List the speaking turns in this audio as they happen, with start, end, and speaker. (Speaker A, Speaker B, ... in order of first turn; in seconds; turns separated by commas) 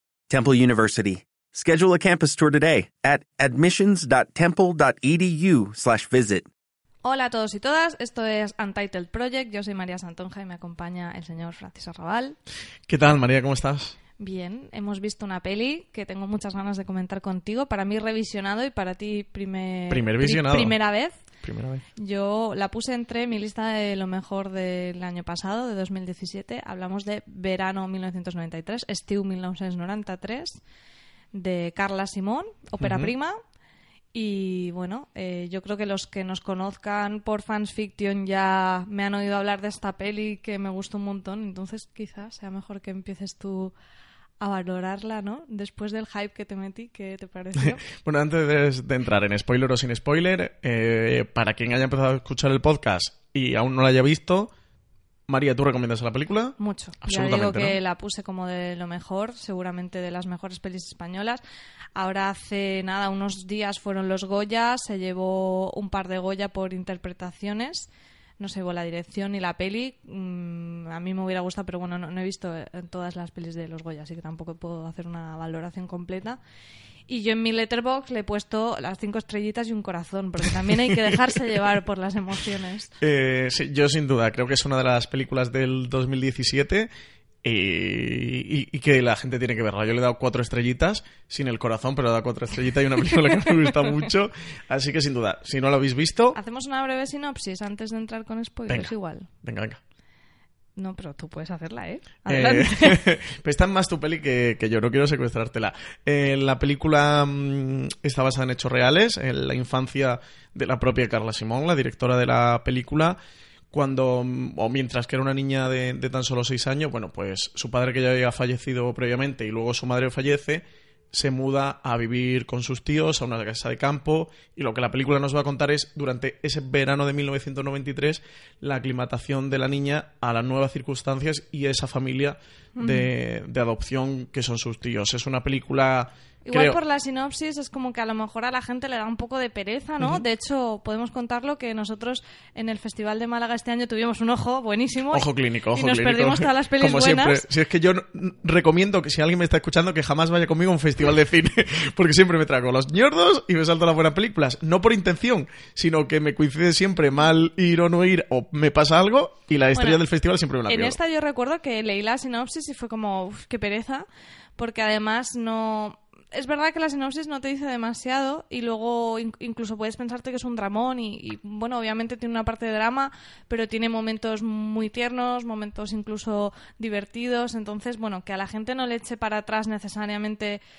Speaker A: 0.3-6.5, Speaker B: 7.0-12.4, Speaker C: 12.9-14.0, Speaker B: 14.2-21.2, Speaker C: 19.9-20.8, Speaker C: 21.4-21.8, Speaker B: 22.0-30.6, Speaker B: 31.3-33.4, Speaker C: 32.8-33.1, Speaker B: 34.1-43.7, Speaker B: 44.4-47.8, Speaker C: 47.6-54.5, Speaker C: 55.3-57.8, Speaker B: 56.6-61.4, Speaker B: 62.0-76.4, Speaker B: 77.1-82.9, Speaker C: 83.0-86.9, Speaker C: 87.4-96.4, Speaker B: 96.3-99.3, Speaker C: 98.7-99.8, Speaker B: 100.8-103.1, Speaker C: 102.3-113.2, Speaker C: 113.7-136.8, Speaker B: 132.8-133.1, Speaker B: 136.4-147.4, Speaker C: 145.1-161.0, Speaker B: 159.8-160.0, Speaker B: 160.7-164.1, Speaker B: 164.6-180.6